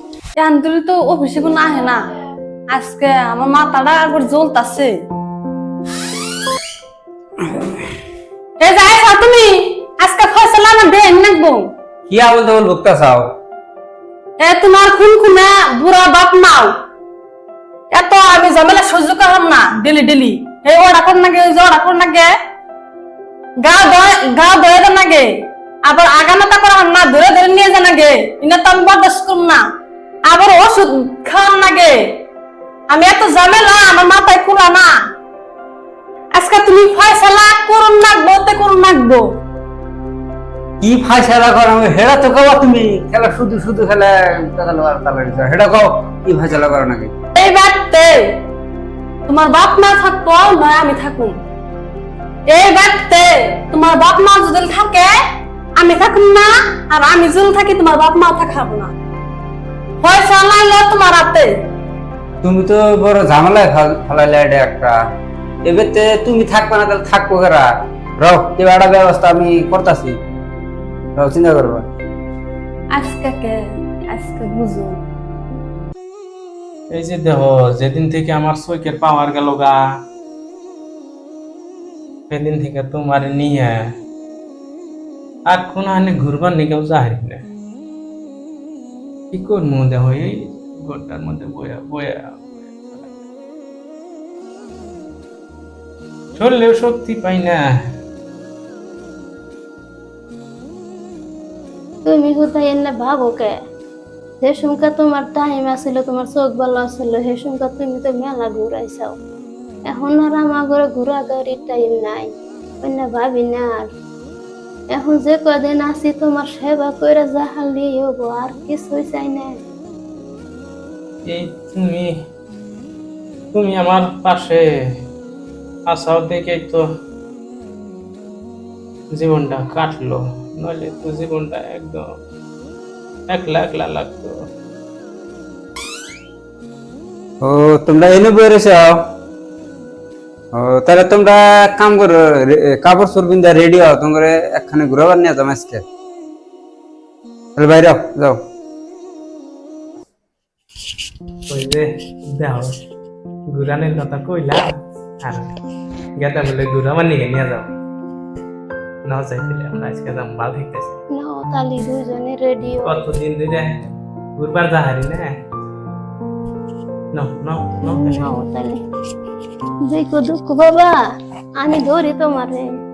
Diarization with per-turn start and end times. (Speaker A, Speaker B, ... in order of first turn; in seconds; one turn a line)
Speaker A: 0.4-2.0
Speaker A: 2.7-5.0
Speaker A: 8.6-11.7
Speaker B: 12.1-13.3
Speaker A: 14.4-16.7
Speaker A: 17.9-22.3
Speaker A: 23.6-29.6
Speaker A: 30.3-32.2
Speaker A: 32.9-35.0
Speaker A: 36.3-39.3
Speaker B: 40.8-47.1
Speaker A: 47.4-48.4
Speaker A: 49.3-51.4
Speaker A: 52.5-55.2
Speaker A: 55.8-58.9
Speaker A: 60.0-61.5
Speaker B: 62.4-65.0
Speaker B: 65.7-70.2
Speaker B: 71.2-71.9
Speaker A: 72.9-75.0
Speaker C: 76.9-79.8
Speaker C: 82.3-83.8
Speaker C: 85.5-87.4
Speaker C: 89.3-93.1
Speaker C: 96.4-97.6
Speaker D: 102.0-103.5
Speaker D: 104.4-109.2
Speaker D: 109.9-113.9
Speaker D: 114.9-119.5
Speaker C: 121.2-122.1
Speaker C: 123.5-124.7
Speaker C: 125.9-126.8
Speaker C: 129.1-132.1
Speaker C: 133.3-134.3
Speaker B: 137.4-139.0
Speaker B: 140.5-145.8
Speaker B: 147.6-148.4
Speaker C: 151.5-152.8
Speaker C: 153.5-154.7
Speaker C: 155.2-155.5
Speaker C: 156.2-157.7
Speaker C: 159.1-161.0
Speaker D: 161.1-163.0
Speaker C: 162.8-163.7
Speaker C: 164.4-165.3
Speaker C: 167.1-168.3
Speaker D: 167.9-168.8
Speaker D: 169.8-171.0
Speaker D: 171.6-172.7